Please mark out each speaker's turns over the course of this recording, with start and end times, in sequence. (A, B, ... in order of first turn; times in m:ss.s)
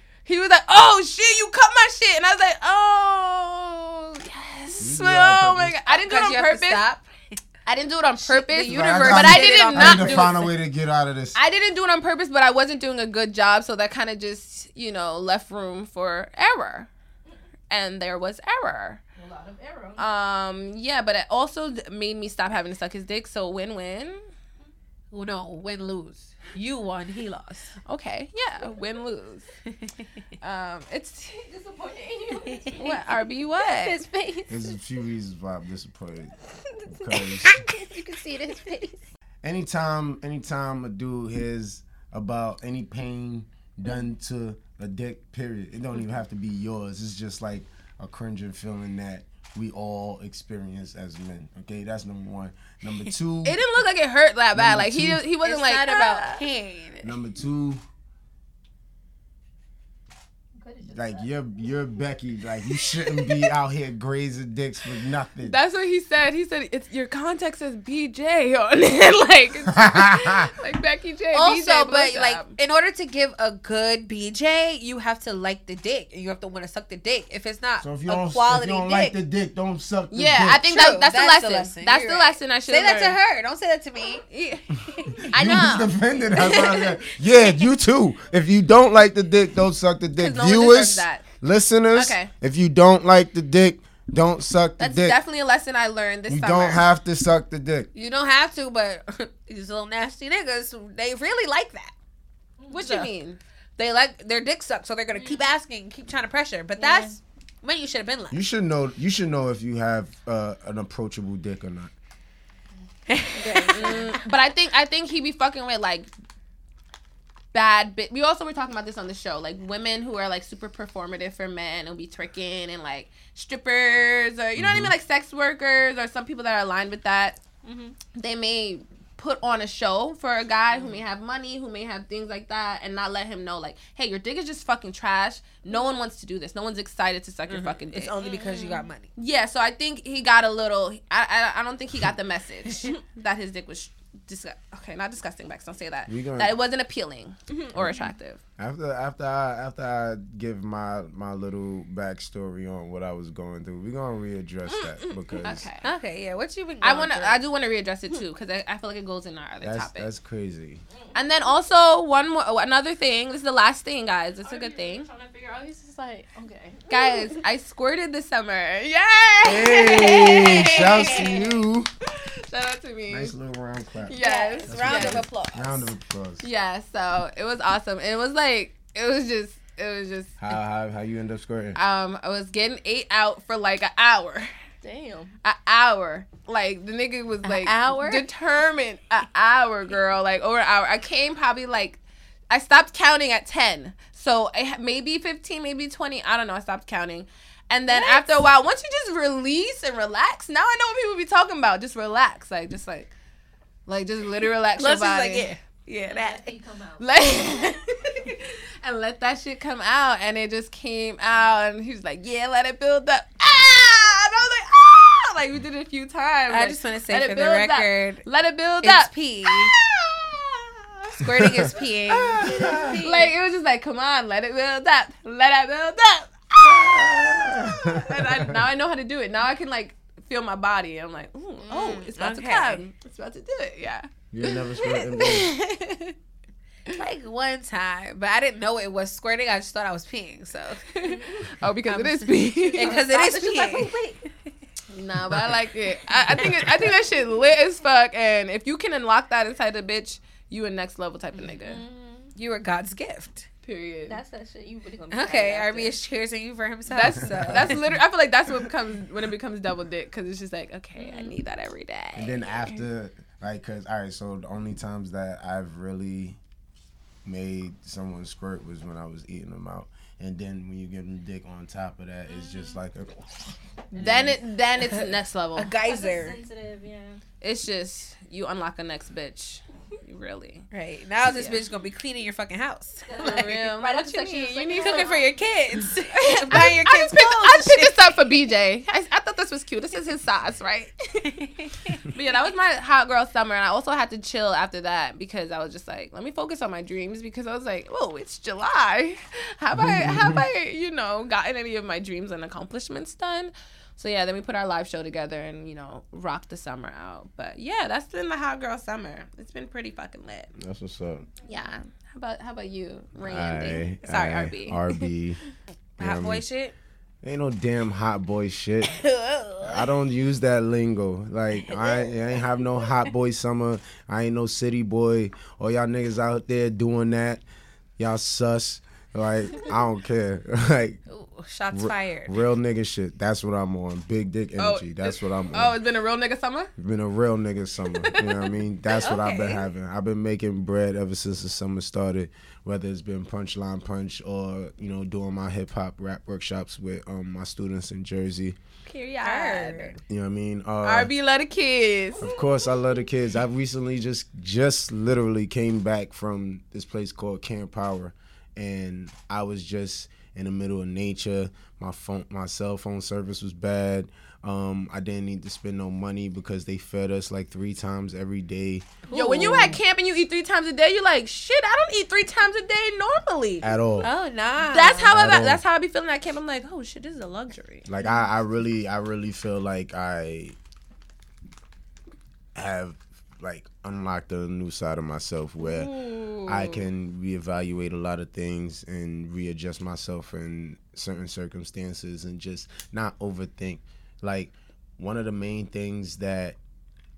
0:00.2-0:06.8 A
0:04.8-0:05.8 B
0:05.8-0:07.1 C
0:07.6-0:10.4 A
0:08.2-0:10.5 C
0:08.6-0:11.4 B
0:11.3-0:16.9 A
0:17.7-0:19.0 A
0:19.2-0:20.0 D
0:20.0-0:24.3 A
0:25.1-0:27.8 C
0:27.8-0:29.4 A
0:30.4-0:31.5 A
0:31.5-0:33.0 D
0:32.6-0:34.0 A
0:33.8-0:34.8 D
0:34.5-0:36.3 B
0:36.8-0:39.0 D
0:36.9-0:37.5 B
0:39.4-0:53.6 B
0:53.4-0:56.4 A
0:54.5-0:55.2 B
0:55.4-0:57.1 C
0:57.0-0:57.8 B
1:00.6-1:01.3 D
1:00.9-1:05.5 B
1:05.4-1:12.5 A
1:09.7-1:10.5 B
1:11.3-1:19.2 C
1:17.8-1:20.8 B
1:20.1-1:23.2 A
1:20.7-1:25.3 C
1:25.1-1:35.2 B
1:25.3-1:25.9 A
1:26.3-1:27.2 C
1:30.2-1:31.2 A
1:31.9-1:32.3 A
1:34.8-1:36.8 A
1:36.3-1:37.9 B
1:37.9-1:41.9 C
1:42.7-1:43.1 C
1:42.7-1:43.4 A
1:43.8-1:48.4 C
1:45.1-1:45.4 D
1:46.8-1:47.2 D
1:48.3-1:51.9 B
1:53.1-1:54.1 C
1:53.3-1:54.2 D
1:53.7-1:56.1 A
1:57.5-2:07.4 A
2:04.6-2:04.9 B
2:07.6-2:08.0 D
2:08.1-2:18.2 A
2:17.5-2:19.1 C
2:18.2-2:18.6 D
2:19.1-2:28.4 A
2:26.1-2:26.6 B
2:27.7-2:28.0 B
2:28.6-2:35.7 B
2:35.4-2:35.8 A
2:35.8-2:37.4 C
2:36.8-2:40.1 A
2:39.6-2:40.8 B
2:40.9-2:41.2 D
2:41.1-2:45.1 A
2:44.4-2:47.4 D
2:46.9-2:50.5 A
2:49.4-2:51.9 B
2:49.8-2:51.4 C
2:52.2-2:53.3 A
2:53.1-2:56.4 B
2:54.1-2:55.2 A
2:54.2-2:55.9 C
2:54.2-2:54.6 D
2:56.4-3:00.3 A
3:00.4-3:01.8 B
3:01.7-3:04.5 A
3:04.8-3:05.3 D
3:05.4-3:12.0 A
3:07.4-3:08.3 C
3:12.5-3:23.1 A
3:23.9-3:25.5 A
3:24.8-3:26.5 C
3:26.0-3:27.0 D
3:27.0-3:56.1 A
3:36.5-3:38.2 C
3:38.8-3:39.7 C
3:41.2-3:43.0 C
3:42.4-3:43.3 D
3:42.4-3:43.0 B
3:46.9-3:48.6 B
3:51.7-3:52.0 D
3:51.7-3:52.8 C
3:54.3-3:55.5 B
3:56.9-4:00.9 C
4:00.9-4:03.0 A
4:01.0-4:01.5 D
4:01.9-4:04.0 C
4:02.6-4:04.2 D
4:04.9-4:11.8 A
4:05.3-4:05.5 B
4:06.4-4:06.7 C
4:11.4-4:12.3 D
4:12.3-4:13.5 C
4:13.6-4:14.2 A
4:14.1-4:16.0 D
4:15.1-4:17.8 C
4:16.9-4:22.8 A
4:17.4-4:18.0 B
4:21.0-4:21.4 D
4:22.2-4:26.4 B
4:27.2-4:34.4 B
4:32.3-4:32.8 D
4:33.9-4:35.7 A
4:35.6-4:36.4 C
4:35.8-4:37.2 D
4:37.4-4:40.6 A
4:40.7-4:43.8 C
4:41.2-4:41.6 A
4:43.1-4:45.5 D
4:43.2-4:45.1 A
4:44.7-4:48.0 C
4:46.2-4:51.3 A
4:51.2-4:52.1 C
4:52.1-5:10.5 A
4:59.8-5:00.4 B
5:10.6-5:11.3 B
5:11.4-5:15.0 A
5:13.2-5:15.4 B
5:16.0-5:16.4 B
5:16.0-5:16.7 C
5:17.2-5:19.0 B
5:19.6-5:27.4 B
5:28.0-5:31.0 B
5:31.1-5:32.3 C
5:31.7-5:35.8 B
5:34.6-5:36.7 A
5:36.8-5:48.6 B
5:37.9-5:38.5 A
5:38.9-5:39.7 C
5:48.8-5:49.9 A
5:49.2-5:50.0 C
5:50.1-5:51.1 B
5:50.8-5:52.3 A
5:52.2-6:09.8 B
6:09.0-6:09.8 C
6:09.1-6:13.7 A
6:13.6-6:14.1 B
6:14.0-6:15.3 C
6:14.7-6:17.9 A
6:15.1-6:15.6 B
6:17.8-6:20.6 B
6:22.5-6:25.9 B
6:25.6-6:26.8 A
6:26.4-6:36.6 B